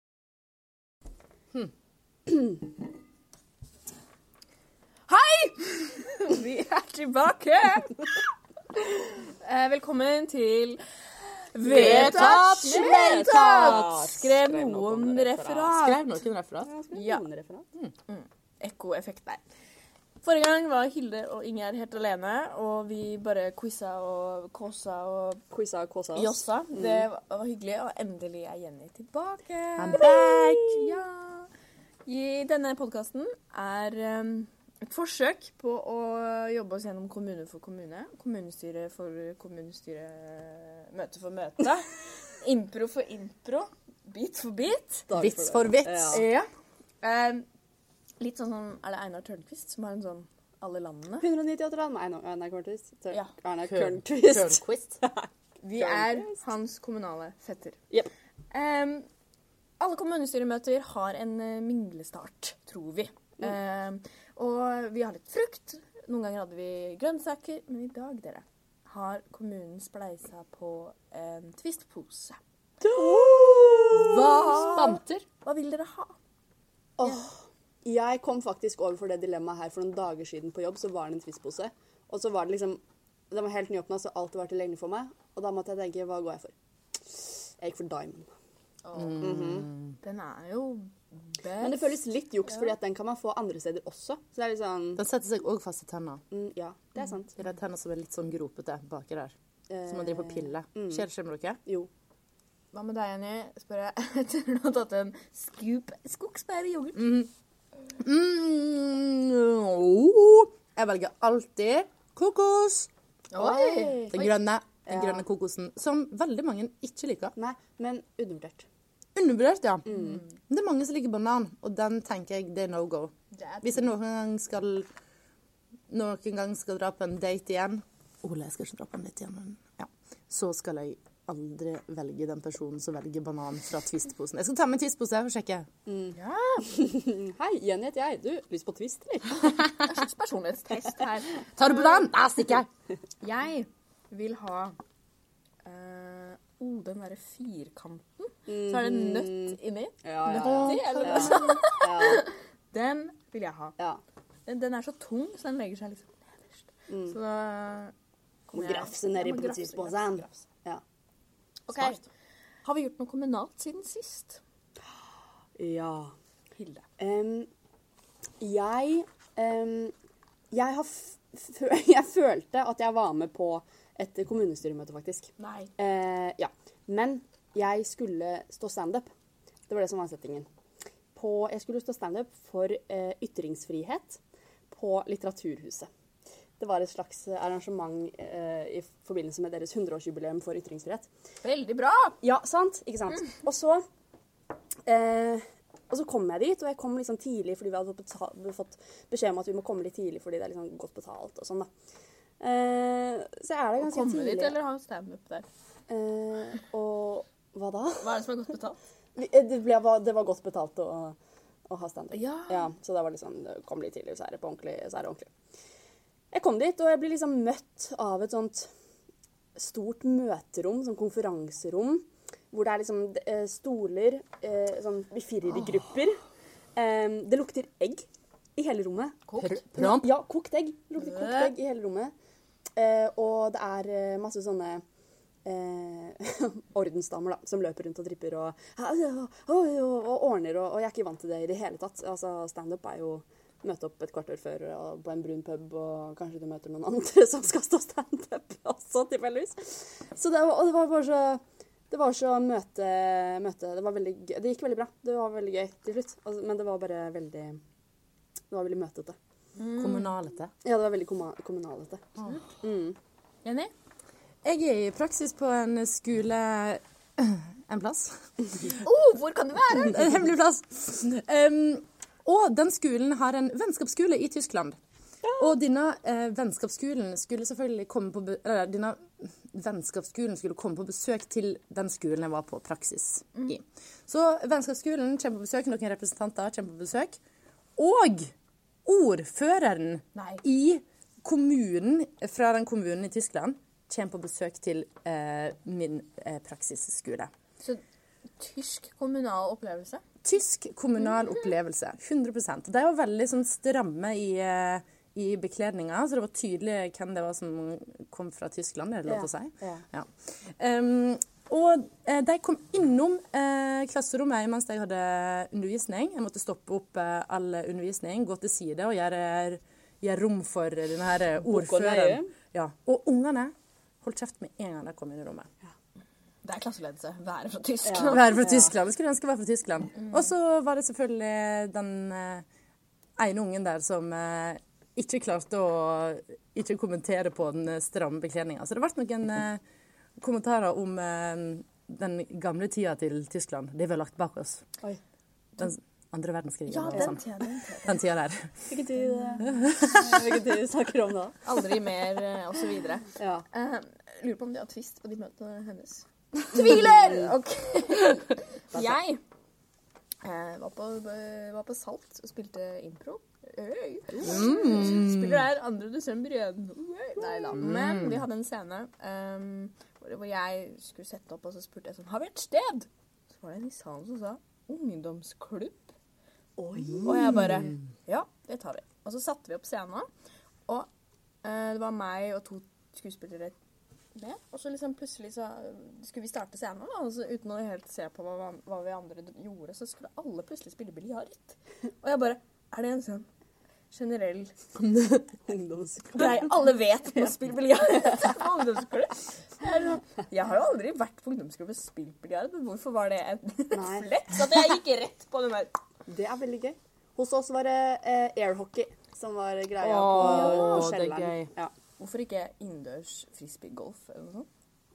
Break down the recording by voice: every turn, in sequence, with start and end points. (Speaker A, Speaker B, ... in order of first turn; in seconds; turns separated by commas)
Speaker A: 5.1-8.1, Speaker A: 8.8-10.8, Speaker A: 11.5-16.2, Speaker B: 11.6-15.8, Speaker C: 11.7-13.9, Speaker C: 15.8-16.7, Speaker B: 16.6-17.7, Speaker A: 16.9-17.2, Speaker A: 18.1-19.4, Speaker A: 20.2-25.4, Speaker B: 25.5-27.1, Speaker A: 26.1-31.5, Speaker C: 29.8-31.0, Speaker B: 29.9-30.1, Speaker A: 32.1-45.1, Speaker B: 45.1-46.3, Speaker C: 45.1-46.2, Speaker A: 46.1-46.5, Speaker A: 47.0-47.5, Speaker A: 48.2-51.3, Speaker B: 51.2-56.4, Speaker C: 53.6-54.9, Speaker A: 55.6-57.8, Speaker A: 58.5-59.1, Speaker A: 59.8-72.4, Speaker B: 72.8-75.2, Speaker A: 73.0-76.2, Speaker C: 73.9-74.8, Speaker B: 77.0-88.3, Speaker A: 88.8-89.3, Speaker C: 89.0-90.0, Speaker B: 89.2-89.7, Speaker A: 90.0-92.0, Speaker B: 91.6-95.0, Speaker C: 95.0-96.2, Speaker B: 96.3-97.3, Speaker C: 97.3-99.3, Speaker B: 99.7-101.1, Speaker C: 99.9-101.6, Speaker A: 102.7-107.1, Speaker C: 107.0-107.3, Speaker C: 108.0-112.9, Speaker A: 113.3-114.3, Speaker B: 113.3-114.3, Speaker C: 114.1-117.3, Speaker B: 114.9-115.3, Speaker B: 117.4-118.7, Speaker C: 119.2-124.9, Speaker B: 119.9-120.2, Speaker A: 119.9-120.2, Speaker A: 123.3-123.9, Speaker C: 125.9-135.7, Speaker B: 135.9-139.5, Speaker A: 136.1-136.7, Speaker A: 139.4-142.1, Speaker C: 141.6-142.7, Speaker A: 143.2-144.8, Speaker A: 145.6-153.8, Speaker B: 148.5-152.3, Speaker C: 150.3-151.6, Speaker A: 154.5-157.9, Speaker B: 156.9-157.2, Speaker A: 158.5-160.4, Speaker B: 158.5-160.8, Speaker A: 161.7-162.0, Speaker C: 161.7-162.0, Speaker A: 162.7-164.4, Speaker B: 165.6-166.1, Speaker A: 166.6-166.8, Speaker B: 167.0-167.5, Speaker B: 168.4-169.9, Speaker B: 170.5-179.1, Speaker A: 175.4-175.7, Speaker B: 179.7-180.5, Speaker B: 181.2-184.2, Speaker B: 184.7-185.9, Speaker B: 186.6-191.1, Speaker A: 191.4-192.2, Speaker B: 192.2-193.8, Speaker B: 194.9-201.7, Speaker B: 202.4-204.6, Speaker A: 203.8-205.5, Speaker B: 205.9-208.2, Speaker A: 208.0-208.8, Speaker B: 209.2-211.2, Speaker B: 211.7-215.3, Speaker A: 212.1-212.7, Speaker B: 216.3-218.7, Speaker B: 219.6-226.2, Speaker B: 226.8-232.1, Speaker A: 229.3-229.6, Speaker C: 229.4-230.1, Speaker A: 231.0-231.5, Speaker B: 232.8-234.8, Speaker B: 235.4-257.6, Speaker B: 258.5-259.2, Speaker A: 259.6-260.1, Speaker C: 259.7-260.5, Speaker B: 260.6-263.0, Speaker A: 263.4-263.7, Speaker C: 264.4-268.3, Speaker A: 268.8-270.2, Speaker C: 269.8-274.8, Speaker C: 275.4-287.2, Speaker C: 287.8-288.3, Speaker C: 288.9-297.3, Speaker A: 290.2-290.4, Speaker A: 298.4-300.0, Speaker C: 300.2-325.5, Speaker B: 309.1-309.9, Speaker B: 321.4-322.3, Speaker A: 326.4-328.4, Speaker B: 327.9-328.7, Speaker C: 328.1-332.4, Speaker C: 333.2-339.6, Speaker C: 340.2-344.7, Speaker C: 345.6-347.2, Speaker A: 346.7-348.0, Speaker C: 347.8-348.7, Speaker B: 348.7-351.4, Speaker C: 349.4-350.2, Speaker A: 351.4-359.2, Speaker B: 353.2-353.4, Speaker B: 356.5-357.3, Speaker A: 360.2-375.9, Speaker C: 364.2-365.5, Speaker C: 367.6-368.2, Speaker B: 376.6-377.3, Speaker C: 376.8-377.8, Speaker A: 376.9-380.1, Speaker A: 381.4-383.6, Speaker A: 384.1-393.3, Speaker A: 393.9-394.5, Speaker C: 394.8-395.3, Speaker B: 395.5-396.4, Speaker A: 396.1-405.7, Speaker B: 403.7-404.1, Speaker B: 406.1-411.7, Speaker A: 409.8-411.1, Speaker C: 409.8-411.5, Speaker A: 412.0-414.5